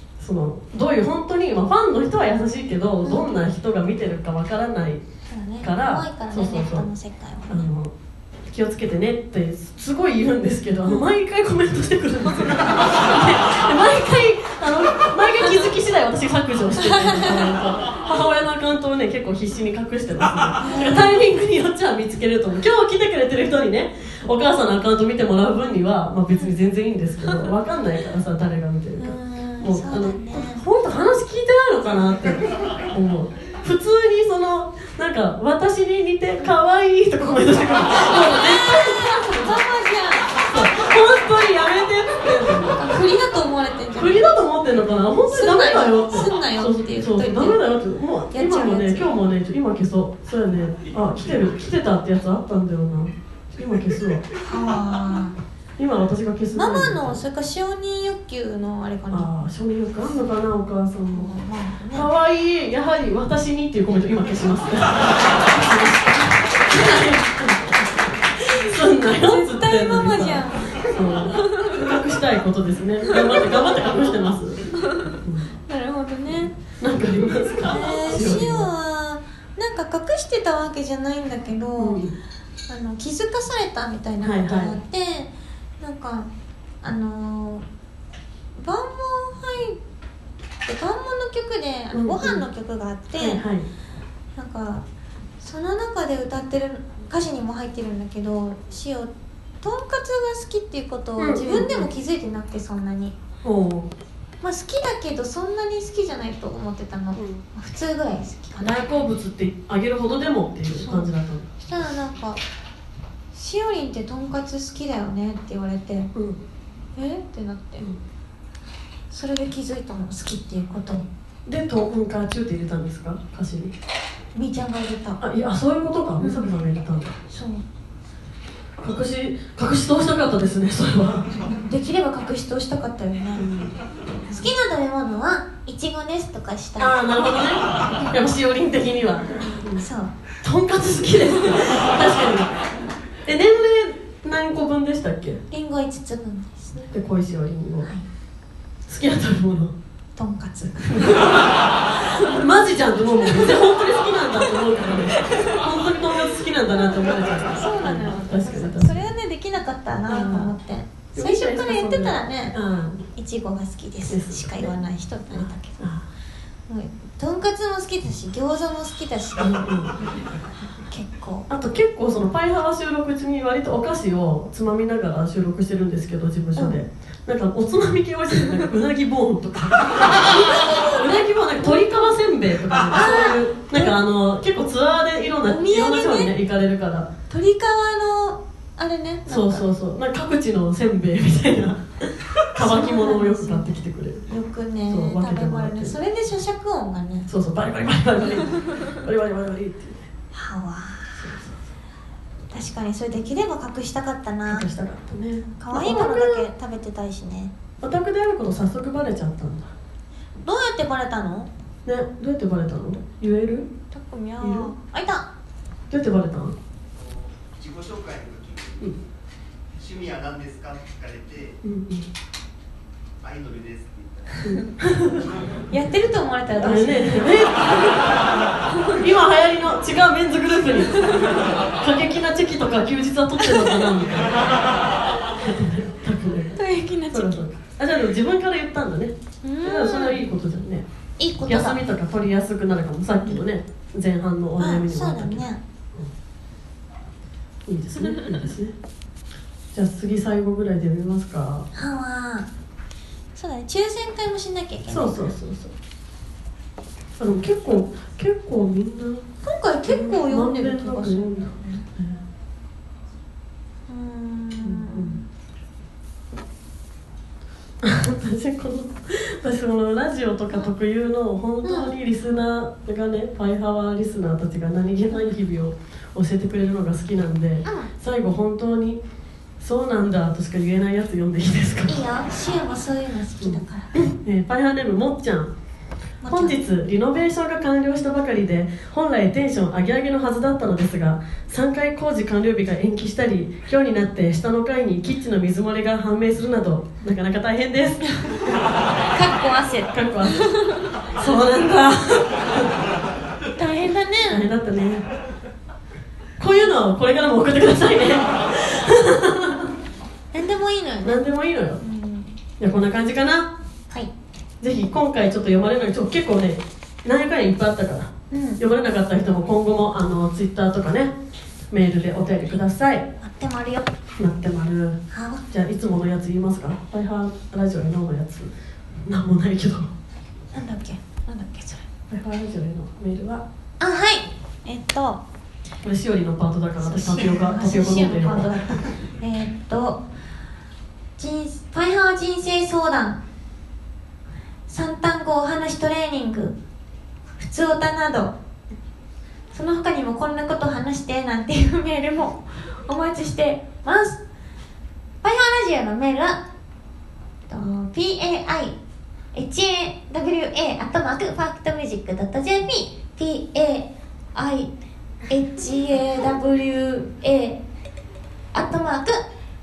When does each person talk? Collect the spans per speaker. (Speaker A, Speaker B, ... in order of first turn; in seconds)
Speaker A: 0.2-5.0, 5.6-6.9, 7.5-7.9, 8.5-39.6, 40.4-42.8, 44.0-54.3, 55.8-57.2, 59.1-61.3, 61.9-74.6, 75.2-75.5, 76.5-78.7, 81.8-82.2, 84.2-84.8, 91.9-92.5, 93.2-93.7, 101.2-101.9, 103.4-103.9, 107.2-107.4, 108.6-111.5, 116.2-116.4, 121.5-123.7, 125.2-127.2, 128.8-131.3, 133.3-133.7, 136.8-139.8, 140.4-142.5, 143.2-145.4, 146.8-147.9, 148.9-149.7, 150.9-159.0, 160.1-160.5, 161.1-163.1, 164.1-164.8, 165.3-166.1, 169.4-170.0, 171.5-187.1, 189.3-194.3, 194.9-196.0, 197.3-200.1, 201.2-201.6, 204.5-206.5, 207.8-209.7, 211.8-213.7, 214.4-214.7, 215.9-216.6, 221.6-222.1, 224.4-225.3, 226.6-228.2, 228.9-234.5, 235.3-240.8, 241.4-246.1, 247.7-248.8, 249.7-251.7, 254.9-255.7, 257.2-259.3, 259.9-262.2, 264.6-265.2, 267.8-279.0, 279.6-282.0, 283.4-285.5, 286.3-298.3, 299.9-300.4, 301.2-302.7, 304.2-305.1, 306.4-309.7, 311.0-311.8, 312.6-313.5, 314.6-321.1, 321.7-323.1, 324.2-325.0, 325.5-328.5, 329.1-329.9, 332.1-333.4, 335.8-338.9
Speaker B: 5.3-7.7, 16.8-17.5, 20.6-21.2, 29.0-30.6, 38.0-40.4, 42.5-44.4, 45.3-47.6, 48.3-49.1, 54.5-55.4, 56.5-59.3, 61.1-62.1, 69.0-70.8, 73.1-73.5, 75.7-76.5, 77.7-82.1, 82.7-86.3, 86.8-87.6, 88.5-89.8, 90.7-93.4, 94.4-94.8, 95.4-103.2, 104.4-108.9, 110.7-112.4, 113.3-116.1, 117.0-117.9, 119.1-121.1, 124.3-125.2, 126.2-126.5, 127.3-127.6, 131.6-133.5, 134.3-137.0, 139.6-140.1, 145.5-146.8, 150.2-151.3, 153.3-153.6, 155.2-155.6, 157.6-162.6, 163.1-165.9, 166.7-169.6, 170.9-171.5, 180.1-182.1, 182.9-184.0, 185.4-186.3, 187.3-189.7, 192.6-193.7, 194.3-197.3, 200.3-201.2, 202.5-204.7, 205.4-207.5, 210.4-211.5, 213.9-215.3, 225.7-227.4, 236.6-237.4, 239.4-240.2, 241.2-241.8, 244.6-245.6, 251.7-252.5, 253.3-255.3, 259.4-261.9, 263.9-265.3, 271.6-271.9, 281.9-283.9, 286.2-286.6, 299.1-300.8, 303.6-304.5, 306.5-306.8, 310.3-311.2, 311.8-312.4, 318.3-318.6, 323.2-323.9, 325.1-325.4, 330.5-331.9, 333.8-335.2, 336.8-340.0, 341.2-343.2, 344.7-346.6, 347.4-348.4, 349.5-354.2, 355.2-356.4, 357.5-358.8, 359.3-364.7, 365.3-367.6, 368.5-369.2
Speaker C: 216.9-219.1, 219.8-221.6, 223.2-224.5